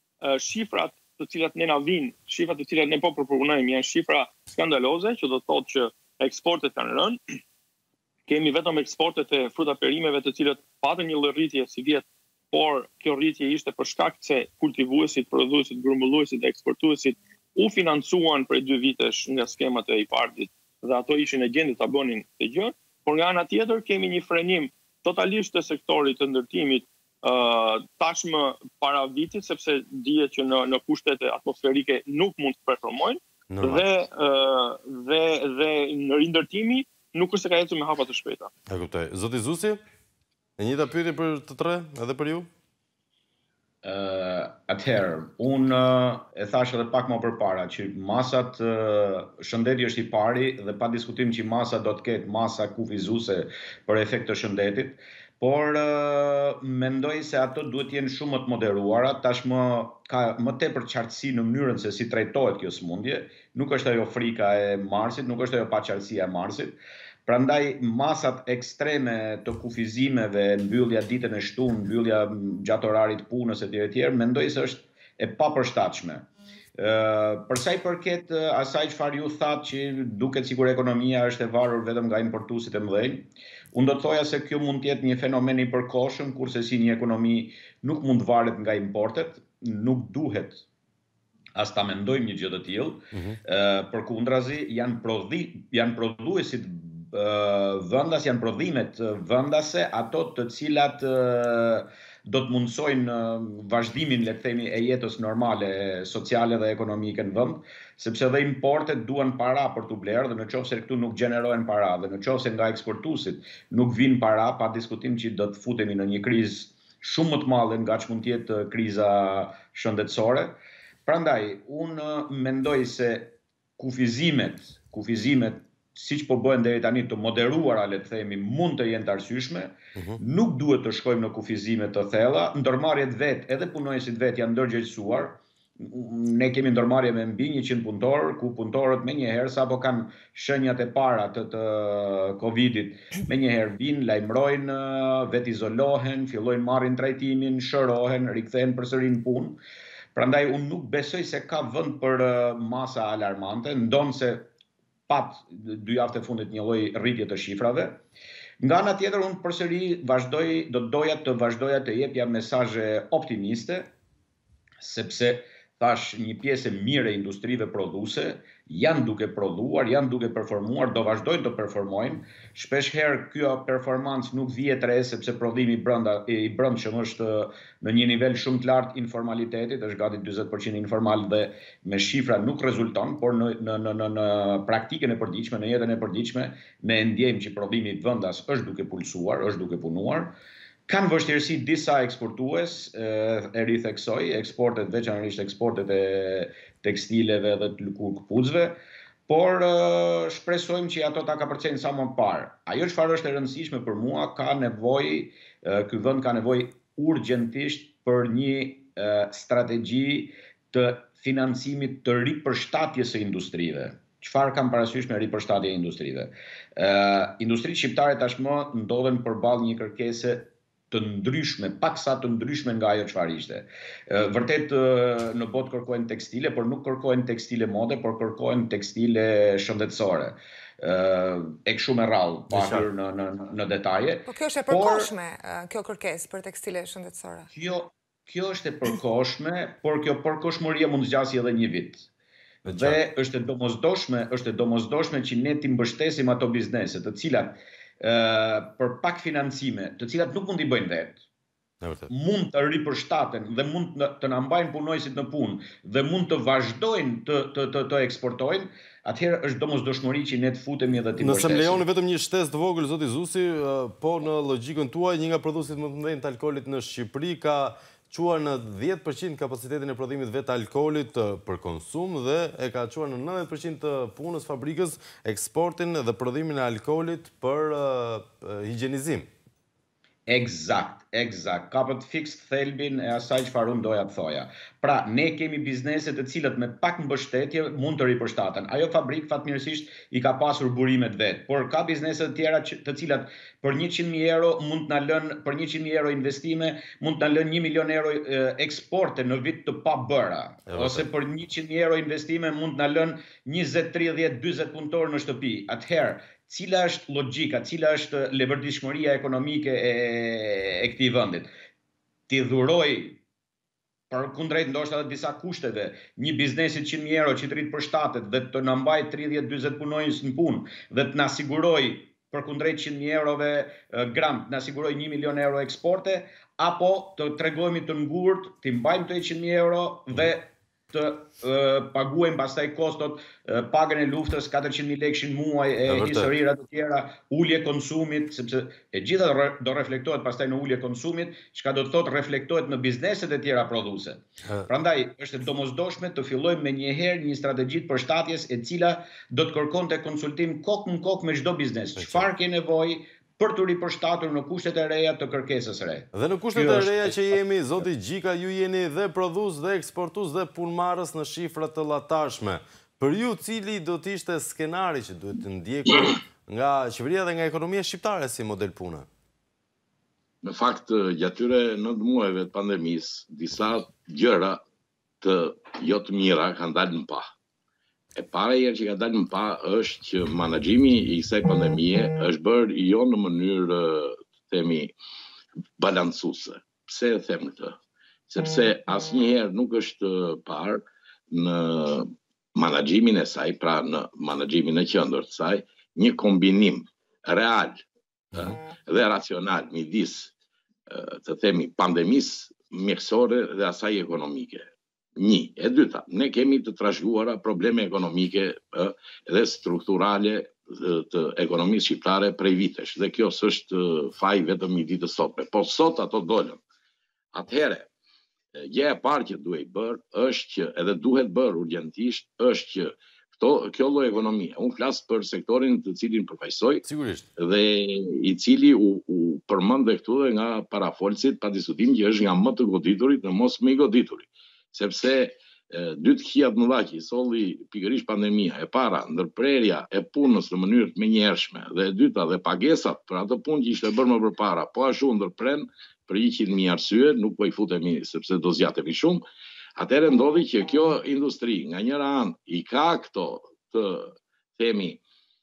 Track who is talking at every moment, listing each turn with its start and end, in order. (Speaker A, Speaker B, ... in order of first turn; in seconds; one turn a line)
Speaker A: 0.2-7.2
Speaker A: 8.3-38.5
Speaker B: 33.5-33.8
Speaker B: 38.7-39.8
Speaker B: 40.6-42.5
Speaker C: 43.8-90.6
Speaker C: 91.5-149.6
Speaker B: 93.1-93.4
Speaker C: 150.2-154.5
Speaker C: 155.1-158.0
Speaker C: 158.6-163.9
Speaker C: 164.8-190.3
Speaker C: 190.9-235.1
Speaker B: 232.5-232.9
Speaker D: 234.3-237.5
Speaker C: 237.5-242.1
Speaker B: 242.7-243.0
Speaker C: 242.7-251.2
Speaker B: 251.8-252.1
Speaker C: 252.1-261.8
Speaker B: 261.2-279.3
Speaker C: 280.3-311.5
Speaker B: 300.7-301.1
Speaker C: 312.3-313.2
Speaker C: 314.1-357.2
Speaker B: 335.9-336.3
Speaker B: 352.0-352.3
Speaker B: 356.1-369.1
Speaker E: 370.4-374.6
Speaker E: 375.2-377.2
Speaker E: 378.2-384.9
Speaker E: 385.8-387.8
Speaker E: 388.3-397.8
Speaker E: 398.4-400.3
Speaker E: 400.9-416.6
Speaker E: 417.3-417.9
Speaker E: 418.6-426.8
Speaker B: 426.8-427.3
Speaker E: 427.4-449.2
Speaker E: 449.8-455.0